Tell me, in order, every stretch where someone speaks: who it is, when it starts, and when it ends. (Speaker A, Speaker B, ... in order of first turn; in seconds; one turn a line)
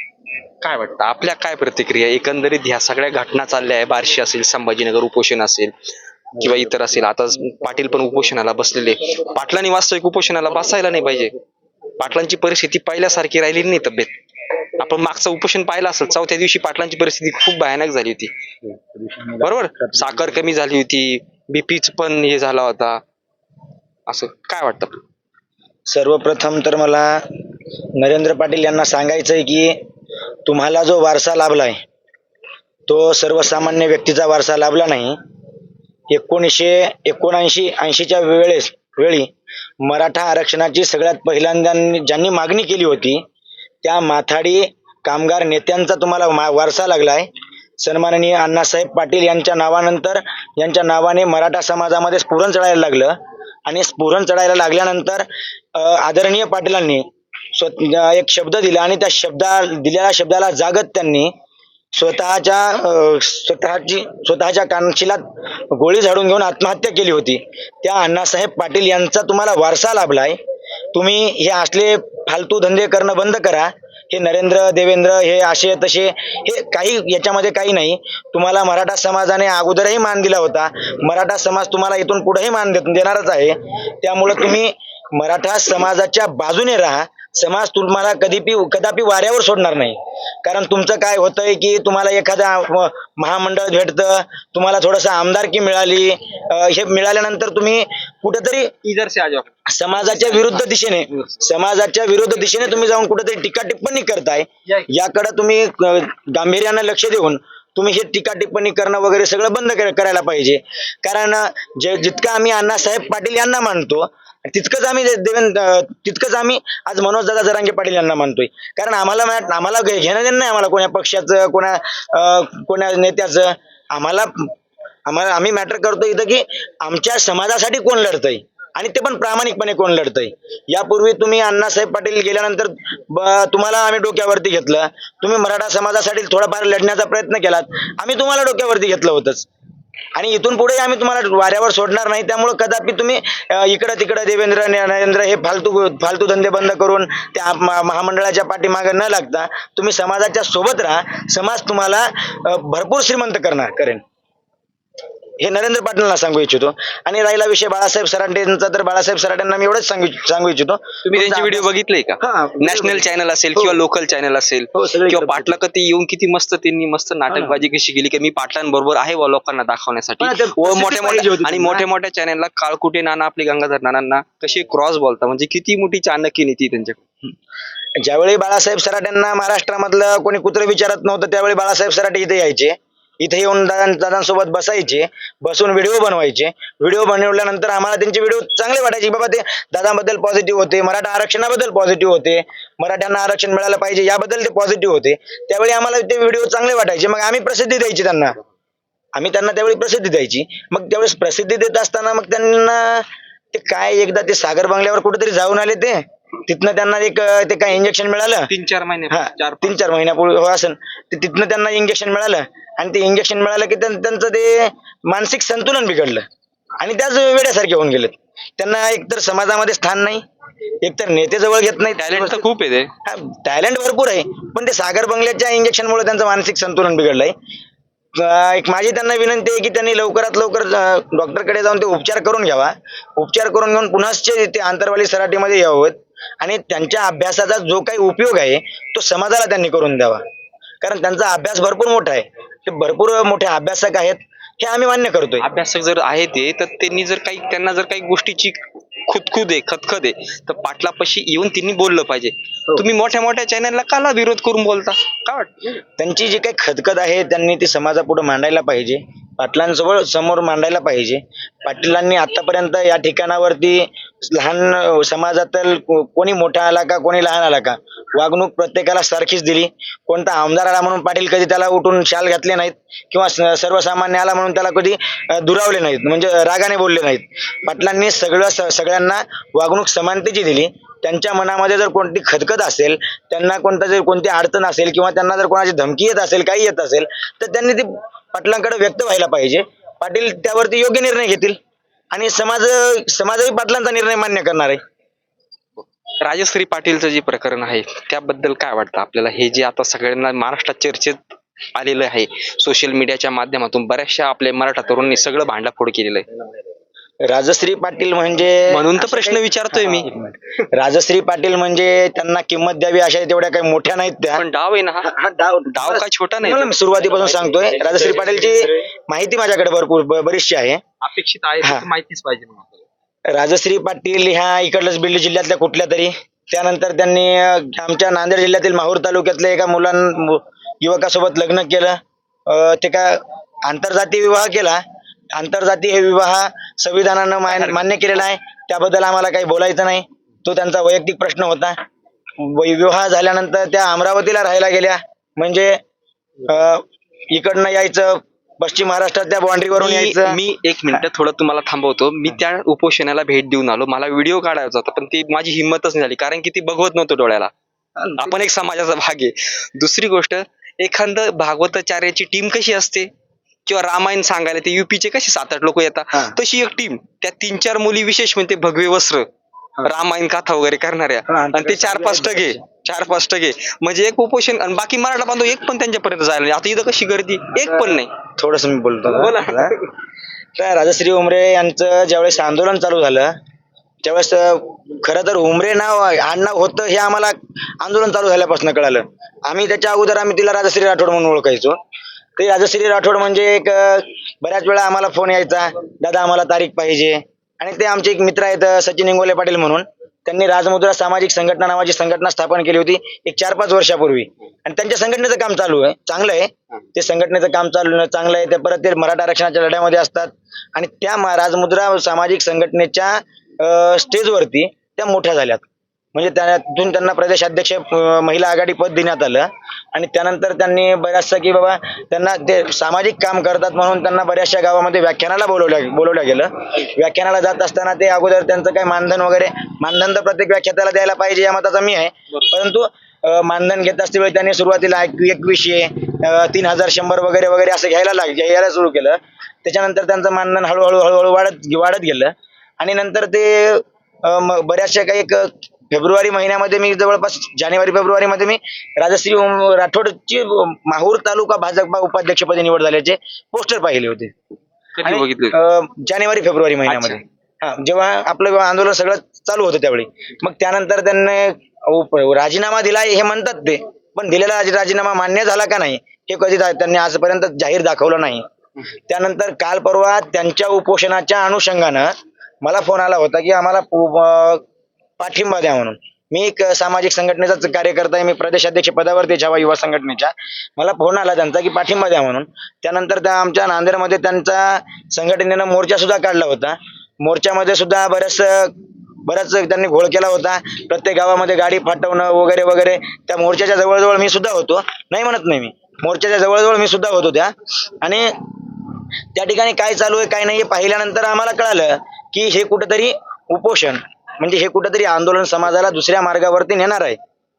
Speaker A: 0.6-5.7
Speaker A: 6.4-11.3
Speaker A: 12.0-14.2
Speaker A: 14.8-18.3
Speaker B: 18.9-20.3
Speaker A: 19.4-23.0
Speaker A: 24.1-25.0
Speaker B: 25.9-27.2
Speaker B: 28.0-29.8
Speaker B: 30.4-31.8
Speaker B: 32.9-35.2
Speaker B: 36.1-39.3
Speaker B: 39.8-43.2
Speaker B: 43.8-47.3
Speaker B: 47.8-53.2
Speaker B: 53.7-61.3
Speaker B: 61.9-70.4
Speaker B: 70.9-98.7
Speaker A: 98.8-99.5
Speaker B: 99.7-124.5
Speaker A: 100.1-100.6
Speaker B: 125.1-139.5
Speaker B: 140.2-154.0
Speaker B: 155.4-161.7
Speaker A: 161.1-177.0
Speaker B: 162.2-163.8
Speaker B: 164.8-165.5
Speaker B: 167.3-167.6
Speaker B: 170.2-171.8
Speaker B: 178.0-198.4
Speaker B: 199.2-208.5
Speaker A: 208.5-209.9
Speaker B: 209.1-216.2
Speaker B: 216.8-220.2
Speaker B: 220.8-222.4
Speaker A: 222.0-222.9
Speaker B: 223.1-227.3
Speaker B: 228.2-240.2
Speaker B: 240.8-245.5
Speaker A: 245.4-255.8
Speaker B: 256.0-291.6
Speaker B: 292.1-294.8
Speaker A: 296.2-301.2
Speaker A: 301.8-306.3
Speaker B: 307.3-314.4
Speaker A: 308.7-310.1
Speaker A: 314.4-315.1
Speaker B: 315.0-320.8
Speaker A: 315.7-318.9
Speaker A: 321.0-322.8
Speaker B: 323.3-334.8
Speaker B: 335.3-341.8
Speaker B: 342.4-345.8
Speaker B: 346.5-350.4
Speaker A: 349.8-357.5
Speaker B: 358.0-358.3
Speaker A: 358.2-363.1
Speaker A: 363.7-369.3
Speaker A: 369.8-378.1
Speaker B: 371.3-372.6
Speaker B: 377.8-379.7
Speaker A: 379.1-379.9
Speaker B: 380.6-383.3
Speaker B: 384.0-391.8
Speaker B: 392.4-454.3
Speaker A: 455.0-455.6
Speaker B: 455.1-468.4
Speaker A: 456.9-457.2
Speaker B: 469.1-472.1
Speaker B: 472.6-474.6
Speaker B: 475.2-488.7
Speaker B: 489.3-498.3
Speaker B: 499.3-507.2